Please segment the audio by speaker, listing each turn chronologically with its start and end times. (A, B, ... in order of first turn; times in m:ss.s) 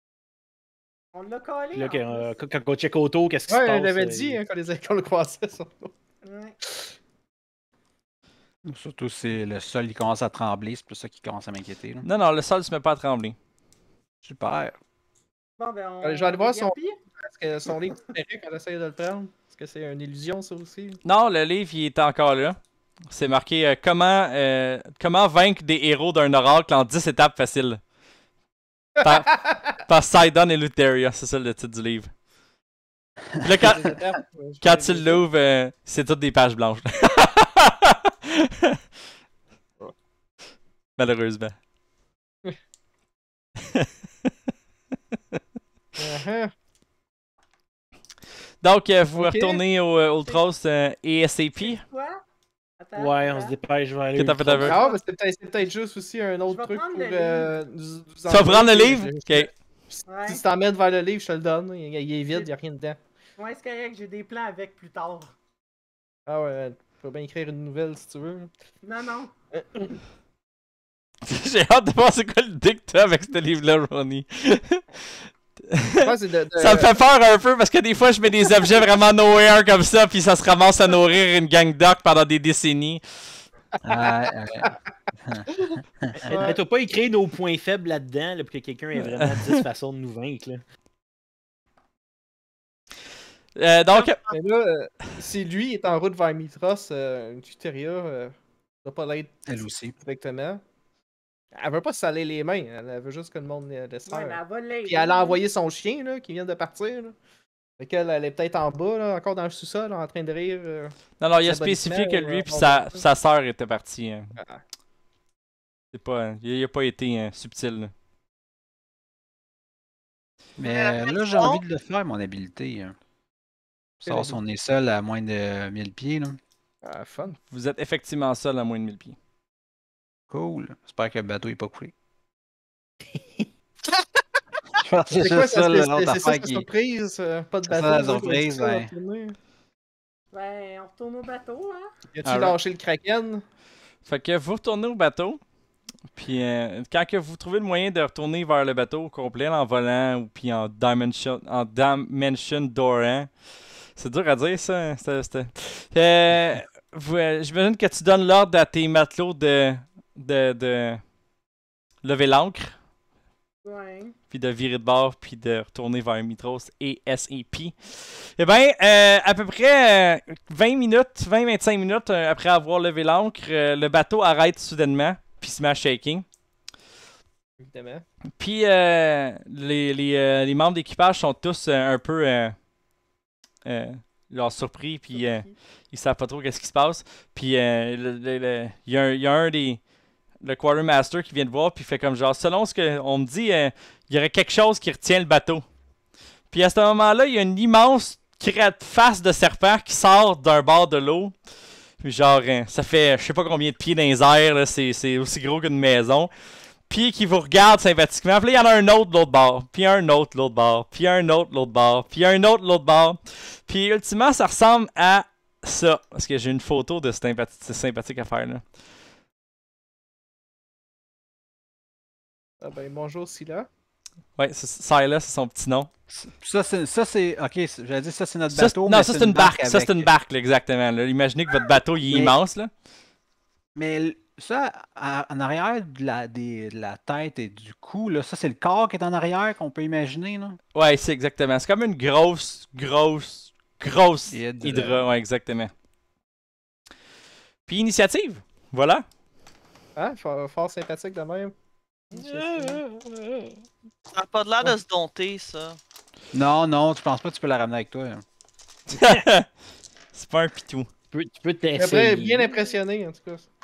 0:01.1-0:02.4 A
0:01.7-0:04.4 B
0:03.5-0:05.9 C
0:06.2-0:06.6 A
0:06.7-0:06.9 C
0:08.6-0:12.0 D
0:12.0-0:13.4 E
0:14.2-0:14.8 D
0:15.6-0:17.0 A
0:16.0-0:21.0 C
0:21.0-0:22.6 E
0:23.1-0:27.8 E
0:29.0-0:32.1 E
0:33.4-0:33.9 E
0:33.6-0:35.2 C
0:34.6-0:38.8 E
0:41.0-0:41.6 E
0:46.0-0:46.5 C
0:48.6-0:51.8 E
0:49.2-0:49.6 C
0:51.6-0:52.2 A
0:52.8-0:53.5 A
0:52.9-0:54.8 B
0:54.1-0:54.7 E
0:54.6-1:03.0 C
0:54.6-0:55.0 A
0:56.5-0:57.6 A
0:58.3-0:59.5 E
1:00.0-1:00.4 A
1:03.4-1:05.3 A
1:06.3-1:08.5 C
1:08.8-1:09.3 A
1:09.5-1:09.8 C
1:11.2-1:23.4 E
1:16.0-1:16.9 C
1:23.8-1:25.4 D
1:25.7-1:26.6 C
1:26.2-1:30.6 B
1:33.6-1:34.3 E
1:34.3-1:39.4 C
1:39.5-1:39.9 D
1:40.0-1:40.6 C
1:41.5-1:47.1 C
1:44.0-1:45.4 A
1:47.8-1:53.0 C
1:51.2-1:54.4 E
1:54.4-1:54.6 C
1:55.9-1:57.9 E
2:00.6-2:02.9 D
2:00.6-2:01.6 F
2:04.0-2:06.4 D
2:04.0-2:04.4 C
2:06.8-2:07.4 C
2:07.5-2:09.2 E
2:10.3-2:11.9 D
2:14.8-2:16.7 D
2:15.2-2:19.4 C
2:17.6-2:18.9 D
2:20.3-2:21.9 A
2:22.1-2:23.4 C
2:22.2-2:22.6 E
2:24.0-2:25.4 E
2:26.1-2:33.3 E
2:34.0-2:41.0 E
2:42.0-2:42.8 E
2:43.6-2:44.1 A
2:44.3-2:56.2 E
2:57.6-2:58.0 C
2:58.4-3:02.6 E
3:03.6-3:09.8 E
3:05.2-3:05.5 A
3:10.4-3:15.6 E
3:16.5-3:21.3 E
3:22.0-3:26.3 E
3:26.9-3:38.6 E
3:42.6-3:43.7 C
3:44.4-3:45.9 E
3:46.1-3:50.1 D
3:48.5-3:52.7 E
3:52.1-3:52.4 D
3:53.7-4:00.6 D
4:00.7-4:05.7 E
4:04.3-4:05.1 D
4:07.7-4:09.0 E
4:10.0-4:11.5 C
4:12.1-4:12.8 C
4:12.1-4:13.6 B
4:14.1-4:15.8 F
4:16.3-4:18.2 D
4:18.9-4:19.5 E
4:20.1-4:20.9 E
4:21.1-4:22.5 B
4:21.8-4:23.5 C